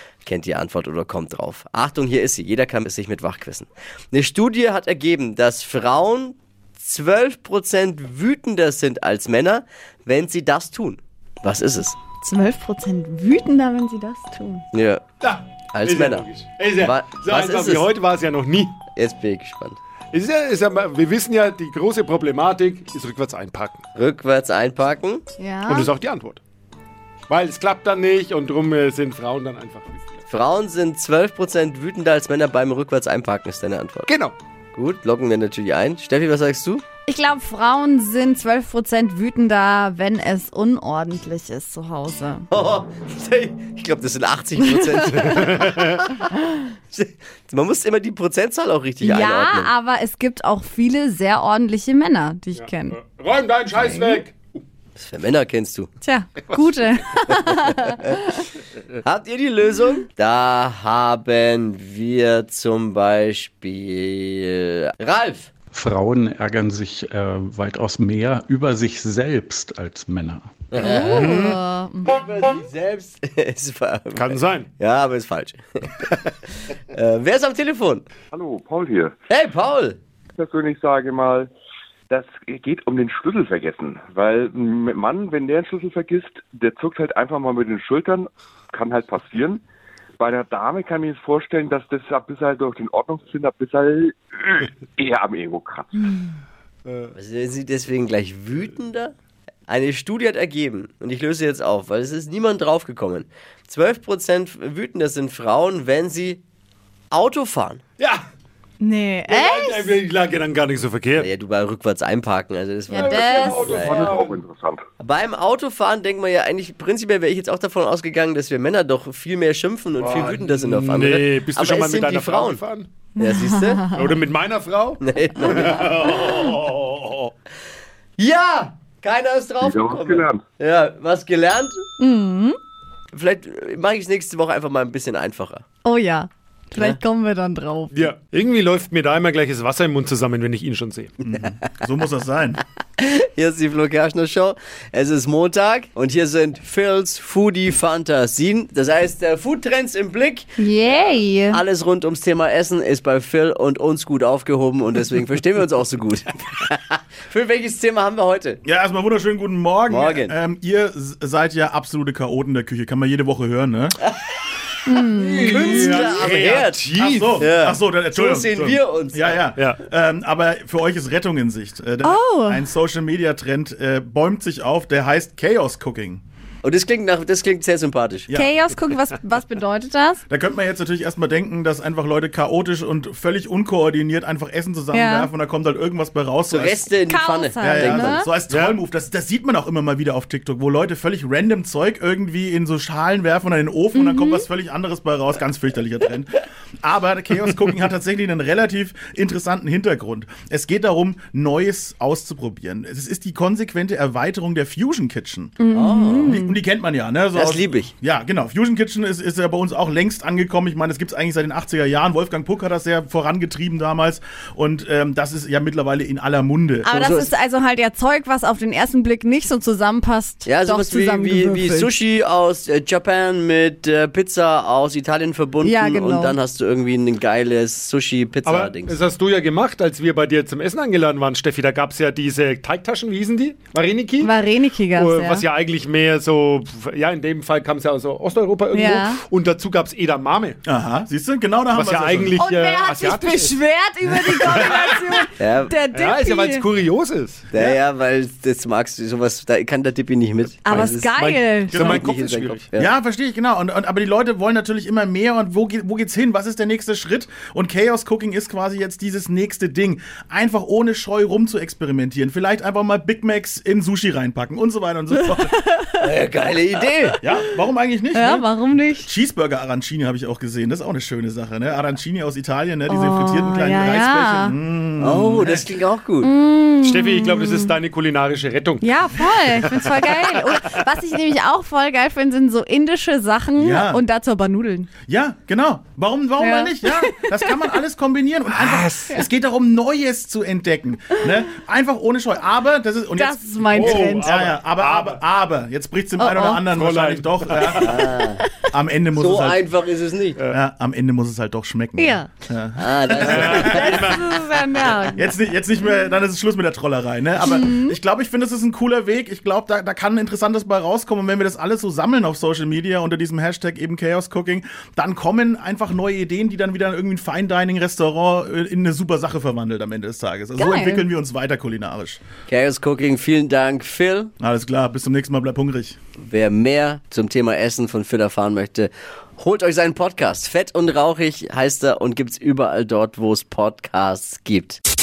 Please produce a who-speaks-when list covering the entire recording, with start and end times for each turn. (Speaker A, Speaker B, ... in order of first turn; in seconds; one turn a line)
Speaker A: 0.2-12.0
Speaker B: 12.2-14.6
Speaker A: 14.7-15.0
Speaker C: 15.2-18.8
Speaker A: 15.7-17.9
Speaker A: 18.9-19.8
Speaker C: 20.1-23.8
Speaker A: 23.9-25.2
Speaker B: 25.4-25.9
Speaker C: 25.6-26.4
Speaker C: 27.3-30.2
Speaker A: 30.3-34.1
Speaker C: 34.1-34.3
Speaker A: 34.7-36.8
Speaker B: 37.0-42.5
Speaker A: 42.5-46.3
Speaker B: 45.1-45.5
Speaker C: 45.3-46.0
Speaker A: 46.9-49.7
Speaker B: 49.0-53.0
Speaker C: 52.5-54.6
Speaker B: 53.8-54.2
Speaker A: 55.0-55.9
Speaker B: 56.0-58.2
Speaker A: 59.0-65.5
Speaker D: 65.7-70.5
Speaker A: 70.7-71.5
Speaker B: 70.8-72.2
Speaker C: 71.1-71.6
Speaker A: 72.0-76.3
Speaker C: 74.1-74.7
Speaker A: 76.9-78.0
Speaker E: 78.3-79.1
Speaker A: 79.3-80.0
Speaker E: 80.3-81.5
Speaker E: 82.1-89.6
Speaker E: 90.2-95.9
Speaker C: 96.9-97.1
Speaker A: 97.1-99.1
Speaker A: 99.7-106.4
Speaker A: 107.1-107.8
Speaker C: 108.0-108.2
Speaker B: 108.8-109.9
Speaker C: 109.3-111.3
Speaker A: 111.2-114.2
Speaker B: 112.9-113.7
Speaker C: 113.0-114.4
Speaker E: 113.7-114.8
Speaker A: 115.0-122.6
Speaker C: 120.0-122.9
Speaker A: 123.2-123.8
Speaker B: 123.2-124.1
Speaker C: 123.9-125.9
Speaker A: 125.0-126.6
Speaker A: 128.2-131.8
Speaker E: 129.6-130.4
Speaker B: 132.0-132.6
Speaker A: 133.1-135.6
Speaker B: 135.8-138.1
Speaker A: 136.7-137.0
Speaker C: 137.9-141.1
Speaker F: 141.2-142.6
Speaker A: 143.0-150.4
Speaker B: 150.6-151.6
Speaker A: 151.5-158.6
Speaker F: 158.6-164.0
Speaker A: 159.9-160.3
Speaker B: 164.8-165.8
Speaker C: 165.2-167.5
Speaker A: 165.4-169.4
Speaker F: 166.9-176.2
Speaker C: 169.6-169.8
Speaker B: 172.0-172.6
Speaker A: 176.6-178.3
Speaker B: 178.3-180.2
Speaker F: 180.3-186.8
Speaker B: 184.9-185.3
Speaker A: 186.5-188.2
Speaker B: 187.1-188.3
Speaker F: 187.6-205.6
Speaker C: 188.5-188.8
Speaker B: 193.9-194.4
Speaker B: 205.6-206.6
Speaker A: 205.7-206.4
Speaker F: 206.2-217.0
Speaker A: 207.3-207.9
Speaker B: 216.8-221.9
Speaker A: 217.0-217.3
Speaker A: 220.4-229.0
Speaker B: 225.6-226.3
Speaker C: 228.4-234.3
Speaker B: 234.2-235.4
Speaker C: 234.9-240.6
Speaker B: 238.7-239.2
Speaker F: 240.7-242.3
Speaker C: 241.7-243.6
Speaker B: 242.4-246.7
Speaker C: 244.3-244.7
Speaker A: 245.4-245.7
Speaker C: 245.9-247.5
Speaker A: 247.5-251.1
Speaker B: 250.6-252.0
Speaker C: 250.7-252.7
Speaker F: 251.7-252.0
Speaker A: 251.7-252.9
Speaker F: 252.8-265.6
Speaker B: 265.1-266.0
Speaker A: 266.0-267.2
Speaker B: 267.1-267.3
Speaker F: 267.2-268.5
Speaker B: 268.1-269.1
Speaker F: 269.0-275.6
Speaker B: 272.9-274.5
Speaker A: 275.0-276.3
Speaker B: 276.2-277.7
Speaker C: 276.8-278.8
Speaker B: 278.8-284.9
Speaker C: 279.5-279.9
Speaker F: 283.6-284.0
Speaker F: 285.1-298.1
Speaker B: 286.4-287.5
Speaker C: 288.5-289.2
Speaker B: 293.1-294.5
Speaker C: 293.8-295.2
Speaker B: 296.2-296.6
Speaker C: 296.7-298.0
Speaker A: 297.7-298.4
Speaker F: 298.7-299.6
Speaker A: 299.1-300.4
Speaker F: 300.5-303.9
Speaker B: 302.0-302.3
Speaker A: 302.8-304.0
Speaker C: 303.2-304.6
Speaker B: 303.6-305.3
Speaker F: 305.1-322.2
Speaker B: 307.4-308.0
Speaker B: 320.6-321.1
Speaker A: 322.5-324.3
Speaker F: 324.4-325.9
Speaker A: 326.2-334.8